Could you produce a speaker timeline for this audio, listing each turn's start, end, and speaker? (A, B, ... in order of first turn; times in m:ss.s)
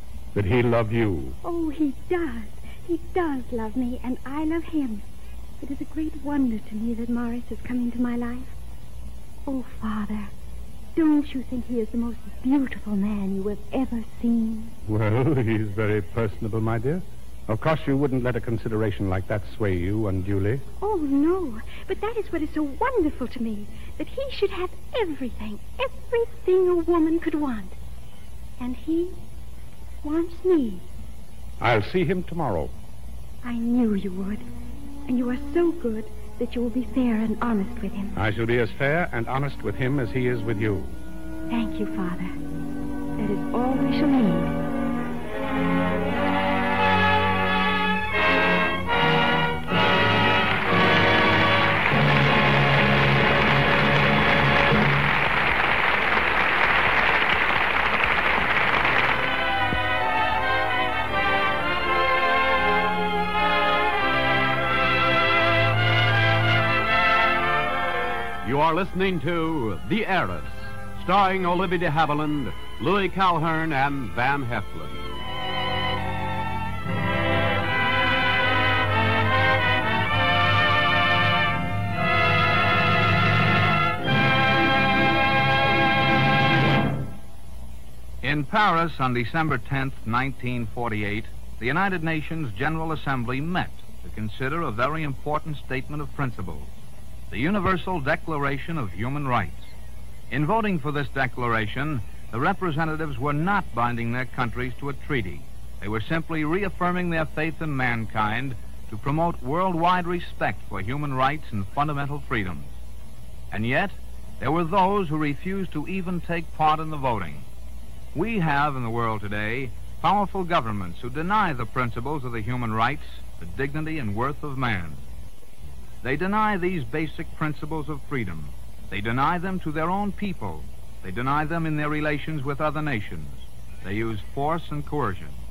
0:00.3-0:01.4 A
0:01.4-0:05.0 B
0:05.6-0:08.5 B
0:09.4-0:10.3 B
0:10.9-0:14.7 B
0:14.9-0:20.6 A
0:20.8-0:27.8 B
0:28.6-0:29.2 B
0:30.0-0:30.8 B
0:31.6-0:32.7 A
0:33.4-0:34.5 B
0:35.1-0:38.2 B
0:38.2-0:40.9 A
0:41.5-0:42.3 B
0:43.2-0:44.6 B
1:08.4-1:15.1 C
1:28.2-1:36.7 D
1:37.3-1:39.7 D
1:40.3-1:52.7 D
1:53.5-1:57.4 D
1:58.1-2:05.0 D
2:06.0-2:15.3 D